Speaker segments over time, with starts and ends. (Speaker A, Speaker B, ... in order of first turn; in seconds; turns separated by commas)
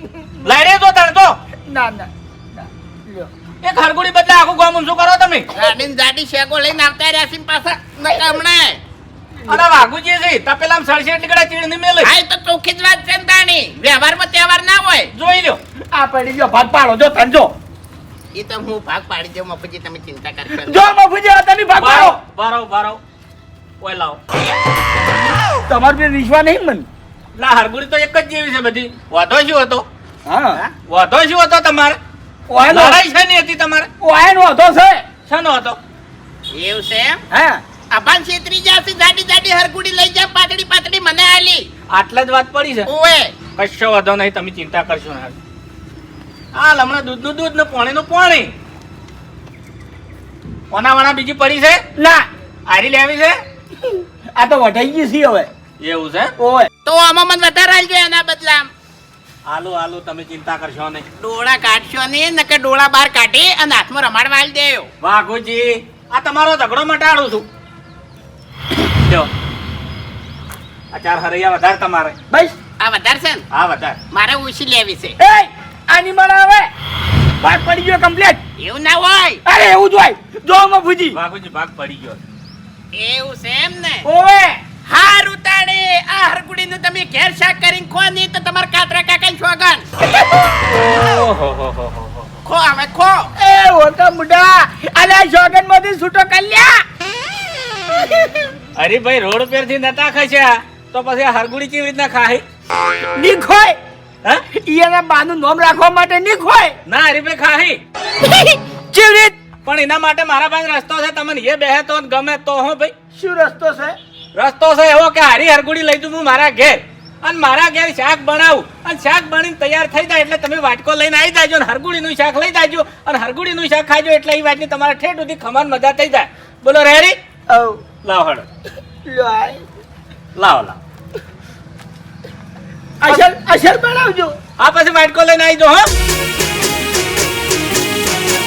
Speaker A: 0.4-1.3, Speaker B: 1.7-3.3, Speaker A: 3.6-5.5, Speaker C: 5.5-8.8, Speaker A: 9.5-12.1, Speaker C: 12.0-15.1, Speaker A: 15.1-15.6, Speaker B: 15.9-17.5, Speaker C: 18.3-20.8, Speaker B: 20.5-22.1, Speaker A: 21.8-23.0, Speaker A: 23.8-24.2, Speaker B: 25.7-26.9, Speaker A: 27.4-29.9, Speaker B: 30.2-30.6, Speaker A: 30.9-32.0, Speaker B: 32.5-33.0, Speaker A: 32.6-33.9, Speaker B: 34.0-35.0, Speaker A: 35.3-35.8, Speaker C: 36.5-37.2, Speaker B: 37.3-37.6, Speaker C: 37.9-41.7, Speaker A: 41.9-42.9, Speaker C: 42.9-43.3, Speaker A: 43.5-45.3, Speaker A: 46.5-48.5, Speaker A: 50.7-51.8, Speaker B: 52.0-52.2, Speaker A: 52.7-53.4, Speaker B: 53.9-55.5, Speaker A: 55.8-56.3, Speaker B: 56.4-56.7, Speaker C: 56.8-58.7, Speaker A: 59.5-61.0, Speaker C: 61.2-64.9, Speaker A: 65.0-67.5, Speaker A: 69.0-69.3, Speaker A: 70.9-72.1, Speaker C: 72.8-73.4, Speaker A: 73.5-74.0, Speaker C: 74.1-75.2, Speaker B: 75.2-76.7, Speaker B: 77.4-78.4, Speaker C: 78.6-79.4, Speaker B: 79.4-81.2, Speaker A: 81.1-82.2, Speaker C: 82.9-84.0, Speaker B: 84.0-84.6, Speaker C: 84.8-89.8, Speaker A: 90.7-92.3, Speaker C: 92.4-93.3, Speaker B: 93.4-96.8, Speaker A: 98.8-102.4, Speaker B: 103.1-103.8, Speaker B: 104.5-106.7, Speaker A: 106.9-107.8, Speaker B: 108.2-109.3, Speaker A: 109.6-112.9, Speaker B: 113.2-114.0, Speaker A: 114.3-127.2, Speaker B: 127.5-127.8, Speaker A: 128.0-128.4, Speaker B: 129.1-129.6, Speaker A: 130.3-130.8, Speaker B: 133.0-134.3, Speaker A: 134.6-135.9